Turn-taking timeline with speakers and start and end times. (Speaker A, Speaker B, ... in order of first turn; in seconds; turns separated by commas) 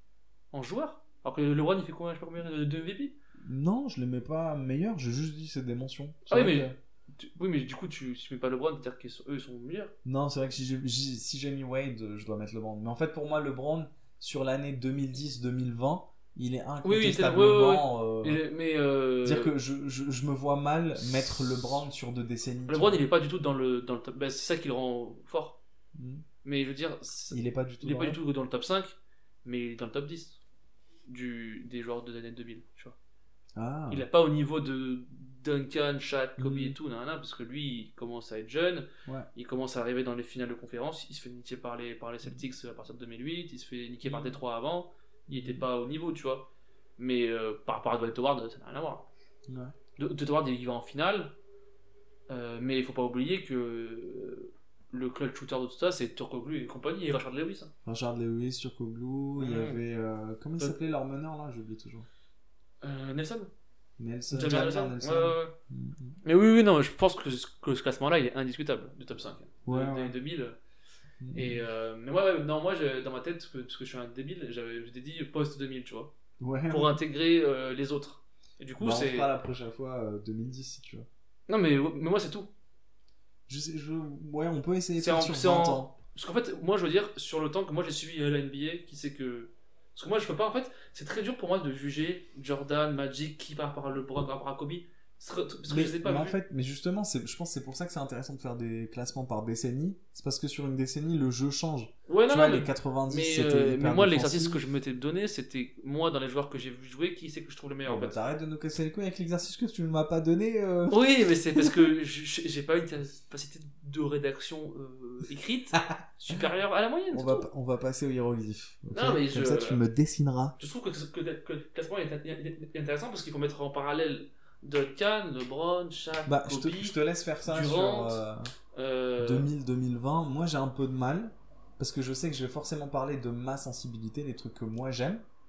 Speaker A: 0.5-3.1, Speaker B: 3.4-6.8, Speaker A: 6.3-9.9, Speaker B: 10.1-18.4, Speaker A: 16.8-19.5, Speaker B: 19.2-23.0, Speaker A: 22.7-25.6, Speaker B: 25.9-26.2, Speaker A: 26.4-30.4, Speaker B: 27.3-28.2, Speaker A: 31.1-33.0, Speaker B: 33.5-34.1, Speaker A: 33.9-46.5, Speaker B: 36.4-36.8, Speaker B: 44.0-44.4, Speaker B: 45.3-45.6, Speaker A: 47.0-49.1, Speaker B: 49.5-49.7, Speaker A: 50.0-51.3, Speaker A: 52.3-57.7, Speaker B: 57.9-62.1, Speaker A: 59.4-59.8, Speaker A: 62.8-63.5, Speaker B: 64.0-66.2, Speaker A: 64.3-65.5, Speaker A: 66.2-70.6, Speaker B: 69.7-70.2, Speaker B: 71.2-71.6, Speaker A: 71.3-76.1, Speaker B: 76.4-77.0, Speaker A: 76.7-79.3, Speaker B: 78.8-81.1, Speaker A: 81.5-82.5, Speaker B: 83.5-86.0, Speaker A: 85.0-96.4, Speaker B: 95.7-104.6, Speaker A: 102.1-108.2, Speaker B: 107.9-111.0, Speaker A: 110.9-117.5, Speaker B: 117.1-120.6, Speaker A: 118.9-119.8, Speaker A: 120.6-128.2, Speaker B: 126.3-128.5, Speaker A: 128.7-129.5, Speaker B: 129.2-135.2